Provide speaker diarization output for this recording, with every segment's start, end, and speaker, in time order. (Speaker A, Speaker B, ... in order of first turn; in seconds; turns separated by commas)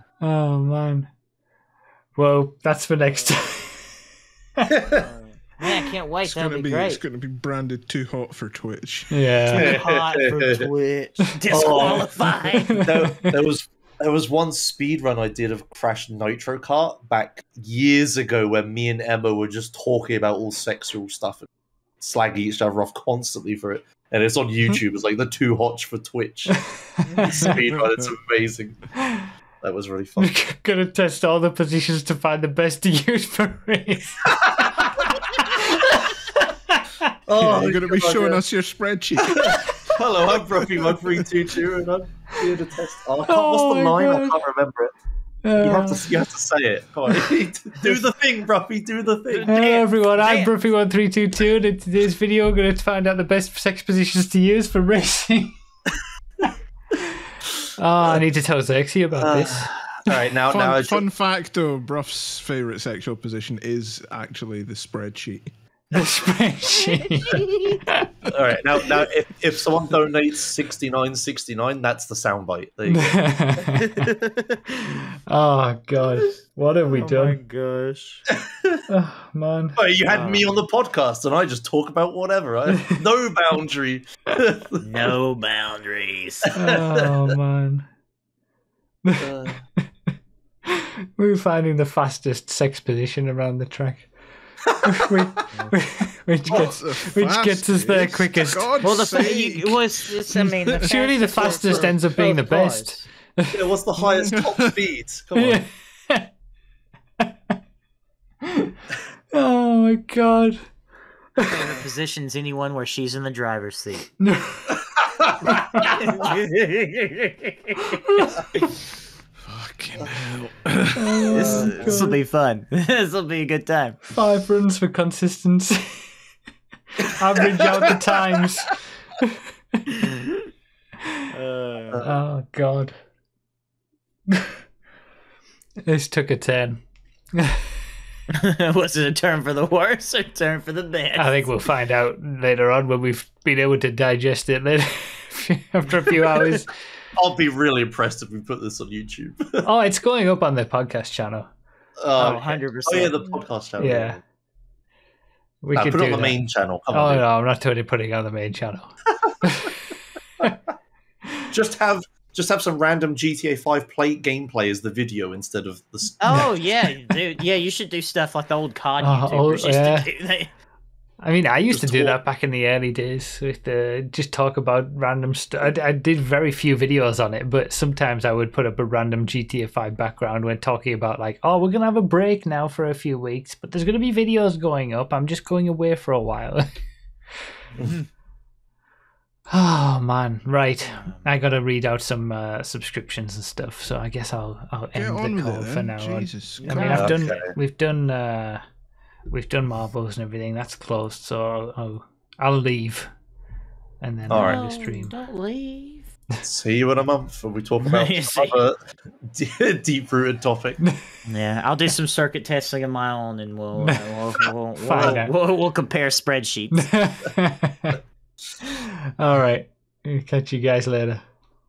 Speaker A: 0.2-1.1, Speaker A: 2.2-4.0, Speaker B: 4.7-5.1, Speaker C: 5.0-7.0, Speaker D: 6.2-9.2, Speaker A: 9.1-9.7, Speaker C: 9.5-12.8, Speaker B: 9.5-10.7, Speaker B: 11.5-12.1, Speaker B: 12.7-21.5, Speaker A: 12.7-13.3, Speaker B: 22.0-26.7, Speaker A: 26.5-27.5, Speaker C: 27.1-27.4, Speaker B: 27.3-28.9, Speaker D: 27.4-28.1, Speaker B: 29.6-30.3, Speaker A: 30.2-36.1, Speaker B: 34.4-34.7, Speaker A: 36.7-37.1, Speaker B: 37.3-38.4, Speaker D: 37.4-39.6, Speaker B: 39.2-44.9, Speaker A: 43.2-44.4, Speaker A: 45.4-46.1, Speaker B: 45.6-49.6, Speaker C: 49.3-50.5, Speaker A: 49.5-55.6, Speaker A: 57.8-59.7, Speaker B: 59.1-61.0, Speaker D: 60.5-65.5, Speaker A: 65.9-68.1, Speaker C: 67.3-67.7, Speaker B: 68.3-73.5, Speaker A: 72.9-73.8, Speaker C: 73.7-74.6, Speaker A: 75.3-77.4, Speaker C: 76.9-78.2, Speaker B: 78.3-78.8, Speaker A: 78.9-79.8, Speaker B: 79.8-85.1, Speaker C: 80.1-80.5, Speaker C: 84.8-86.5, Speaker A: 86.6-87.8, Speaker B: 86.6-87.3, Speaker B: 89.2-89.6, Speaker A: 90.7-94.1, Speaker A: 94.8-98.7, Speaker D: 96.5-100.8, Speaker C: 98.8-103.0, Speaker A: 100.8-103.6, Speaker B: 103.5-105.6, Speaker D: 104.0-104.7, Speaker A: 105.3-106.3, Speaker A: 108.5-108.7, Speaker A: 109.3-110.7, Speaker C: 111.4-114.1, Speaker A: 114.2-114.8, Speaker B: 115.0-115.5, Speaker A: 115.5-115.9, Speaker C: 115.8-118.6, Speaker D: 119.5-121.4, Speaker A: 121.0-122.2, Speaker C: 121.3-124.0, Speaker B: 121.3-122.2, Speaker A: 124.1-126.1, Speaker A: 127.1-129.4, Speaker C: 130.0-130.5, Speaker C: 131.3-132.1, Speaker B: 131.9-132.2, Speaker A: 132.1-132.9, Speaker A: 135.9-136.8, Speaker C: 138.3-141.5, Speaker A: 141.2-146.7, Speaker B: 147.2-149.7, Speaker A: 149.6-151.5, Speaker B: 152.0-154.2, Speaker C: 152.2-153.4, Speaker A: 153.8-154.2, Speaker A: 155.6-158.9, Speaker B: 155.8-157.2, Speaker A: 159.4-159.8, Speaker B: 161.5-166.7, Speaker C: 166.2-170.5, Speaker A: 169.0-170.1, Speaker A: 171.2-186.7, Speaker B: 171.7-172.2, Speaker C: 187.8-188.1, Speaker A: 189.5-198.6, Speaker C: 190.8-191.4, Speaker D: 194.9-197.0, Speaker C: 196.6-197.2, Speaker B: 196.9-197.5, Speaker A: 199.3-203.1, Speaker A: 204.0-205.1, Speaker B: 204.3-204.7, Speaker C: 204.4-206.1, Speaker B: 206.4-210.8, Speaker C: 207.8-208.6, Speaker C: 211.3-217.0, Speaker A: 213.8-214.2, Speaker A: 214.8-215.3, Speaker A: 216.7-218.0, Speaker A: 219.2-221.2